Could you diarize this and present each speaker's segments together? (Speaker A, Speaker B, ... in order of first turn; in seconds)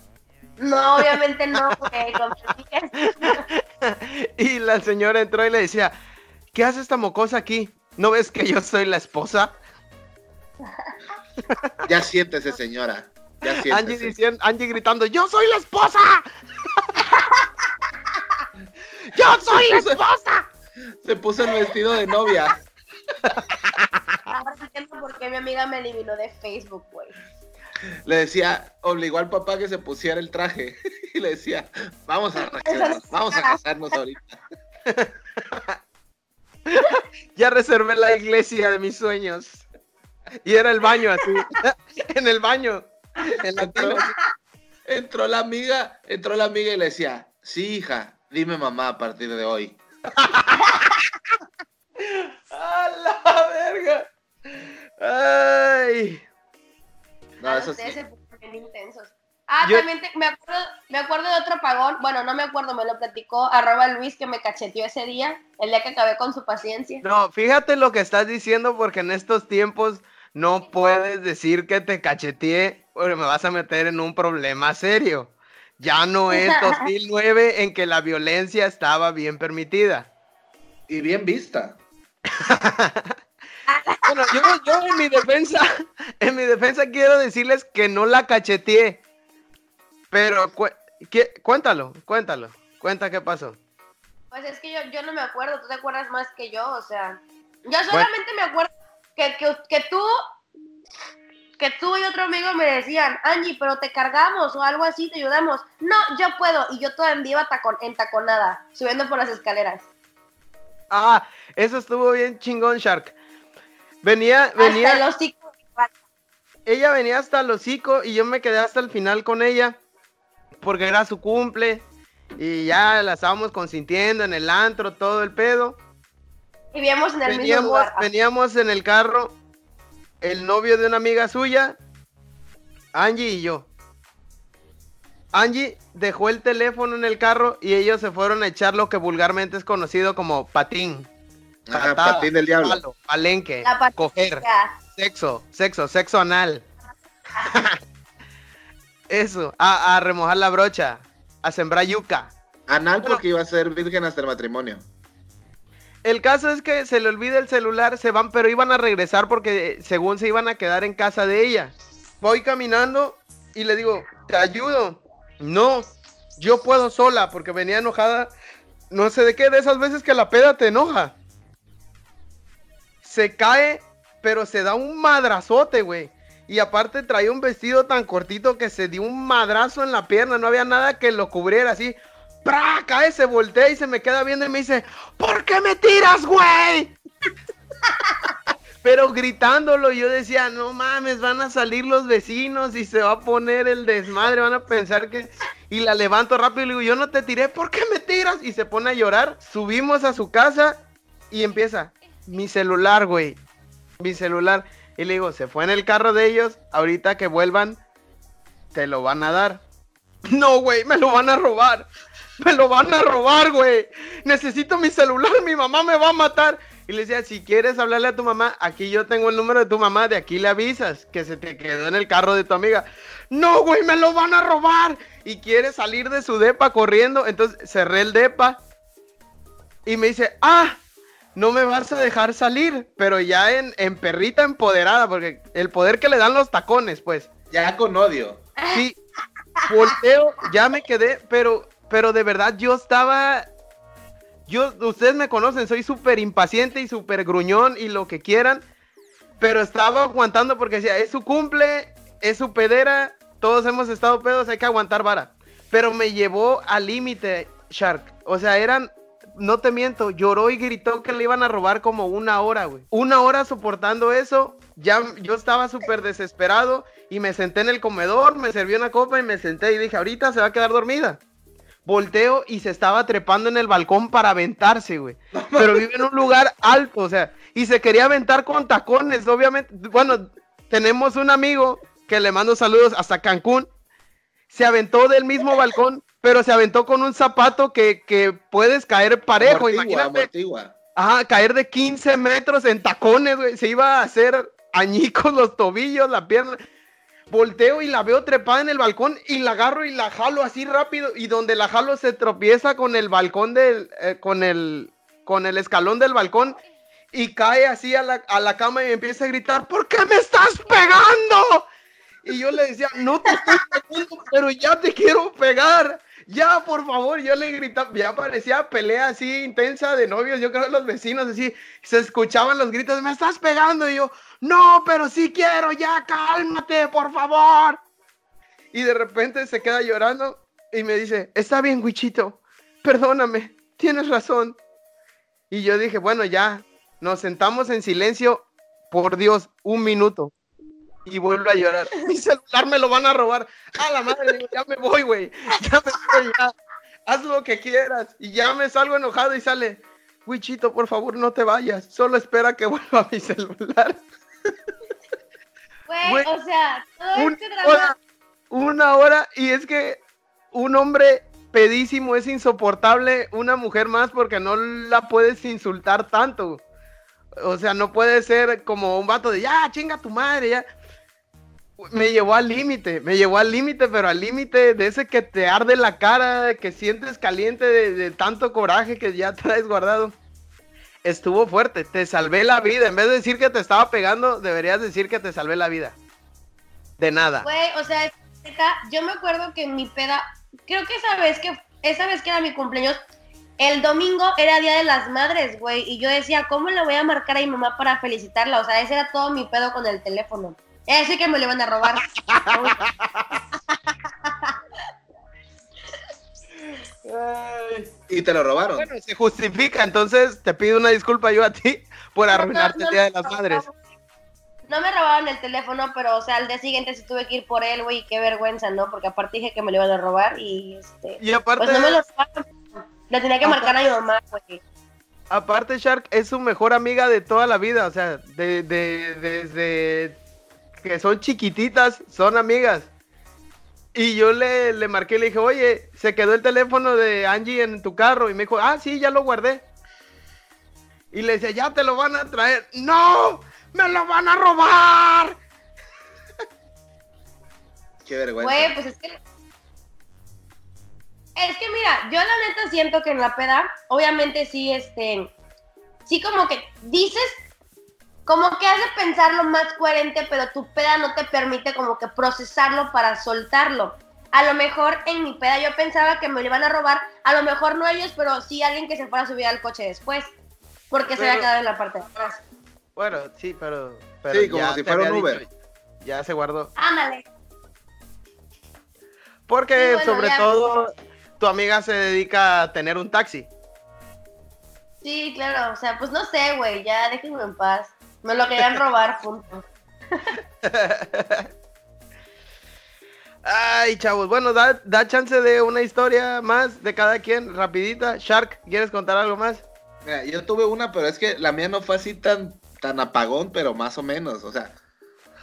Speaker A: 0.6-3.4, 10.6-10.9, 24.3-27.2, 32.6-33.6, 57.4-67.0, 76.3-76.9, 83.7-84.5, 94.3-100.1, 101.6-109.8, 114.6-115.9, 126.7-128.1, 143.6-144.7, 238.6-238.8, 313.3-313.5, 355.9-357.9, 387.4-393.0, 393.6-402.8, 404.2-404.6, 412.3-413.7, 414.7-424.6, 448.4-449.2, 451.4-455.3, 456.1-457.3, 458.2-470.3, 470.9-472.4, 476.8-477.2, 479.8-480.5, 485.0-490.3
Speaker B: 3.2-5.9, 6.5-9.6, 11.5-11.7, 13.5-17.1, 19.1-20.4, 23.2-23.9, 34.9-35.8, 36.7-39.6, 40.4-44.1, 50.1-50.9, 52.0-56.2, 67.0-80.1, 82.4-83.2, 84.0-85.7, 86.2-89.0, 90.1-93.6, 110.9-113.1, 114.0-115.0, 116.7-119.8, 120.6-121.8, 122.4-125.8, 127.2-129.3, 130.2-131.8, 132.9-133.7, 135.3-141.1, 141.7-146.7, 147.4-147.8, 149.1-152.3, 156.0-165.8, 166.4-168.3, 168.9-171.2, 173.0-187.0, 188.8-200.8, 201.3-203.4, 204.0-207.8, 208.7-209.6, 210.3-228.6, 229.8-230.8, 231.3-237.3, 238.7-239.0, 239.7-243.5, 244.5-248.6, 249.4-271.2, 271.8-283.7, 284.5-290.3, 290.9-296.6, 297.3-306.6, 307.1-311.7, 312.2-327.8, 328.7-334.6, 335.5-340.3, 341.1-346.5, 347.1-354.0, 357.1-357.9, 358.5-366.6, 367.4-370.6, 371.8-380.1, 381.0-385.9, 387.0-387.4, 402.2-403.4, 407.0-407.9, 408.8-413.6, 421.2-422.0, 423.4-423.8, 425.3-430.2, 430.8-432.9, 433.9-439.6, 441.1-445.4, 471.1-471.5, 472.9-475.5, 476.0-476.7, 479.5-483.5, 490.6-491.5, 493.4-499.6
Speaker C: 11.8-14.1, 19.5-20.0, 21.0-22.6, 28.1-34.4, 43.6-44.0, 44.8-49.8, 57.4-58.0, 80.9-81.8, 141.7-142.8, 152.7-154.8, 237.5-238.4, 275.3-275.8, 289.4-290.7, 408.1-408.9, 448.0-448.7, 474.3-475.4, 500.0-504.8